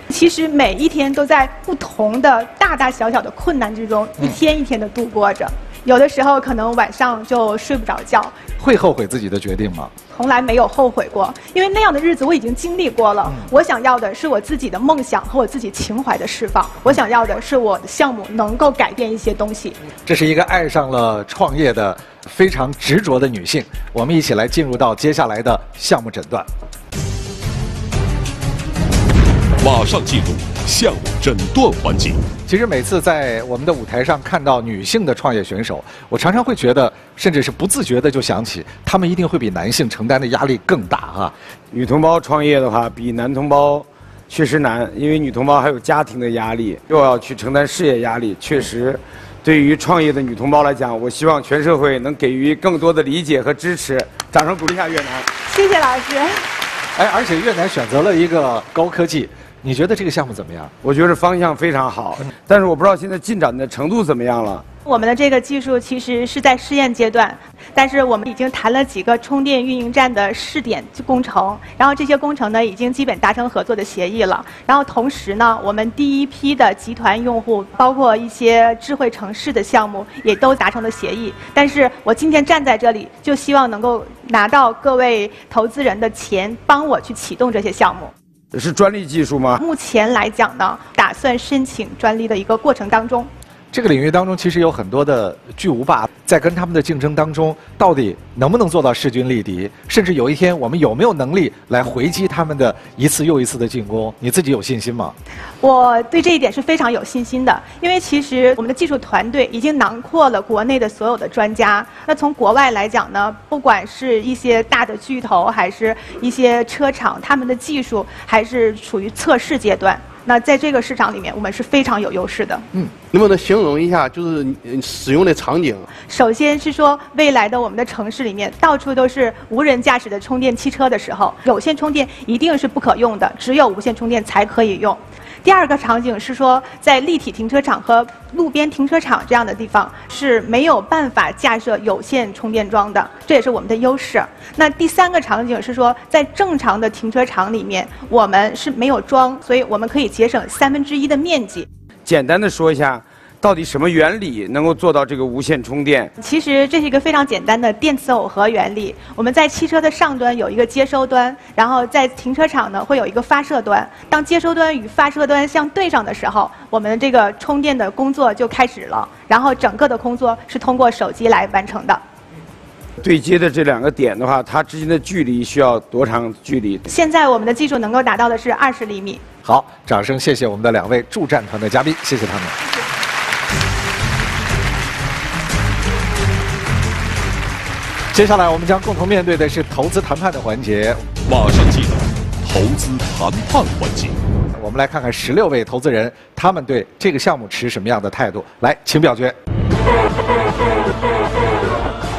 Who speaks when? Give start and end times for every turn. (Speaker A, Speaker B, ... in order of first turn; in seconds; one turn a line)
Speaker A: 0.1-8.5
Speaker B: 8.6-9.9
Speaker A: 10.1-19.8
Speaker B: 20.0-26.5
Speaker C: 29.6-32.2
Speaker B: 32.5-41.3
Speaker D: 41.7-55.3
Speaker A: 55.5-56.4
Speaker B: 57.0-60.7
Speaker D: 60.8-64.6
Speaker A: 64.8-88.1
Speaker D: 88.5-89.6
Speaker A: 89.6-93.3
Speaker B: 93.7-105.1
Speaker A: 105.6-122.7
Speaker E: 123.1-125.9
Speaker A: 126.0-151.7
Speaker D: 152.0-156.1
Speaker A: 156.2-172.0
Speaker D: 173.0-176.8
Speaker A: 176.9-179.2
Speaker B: 179.4-182.6
Speaker B: 188.1-191.0
Speaker C: 191.2-194.2
Speaker B: 194.6-199.3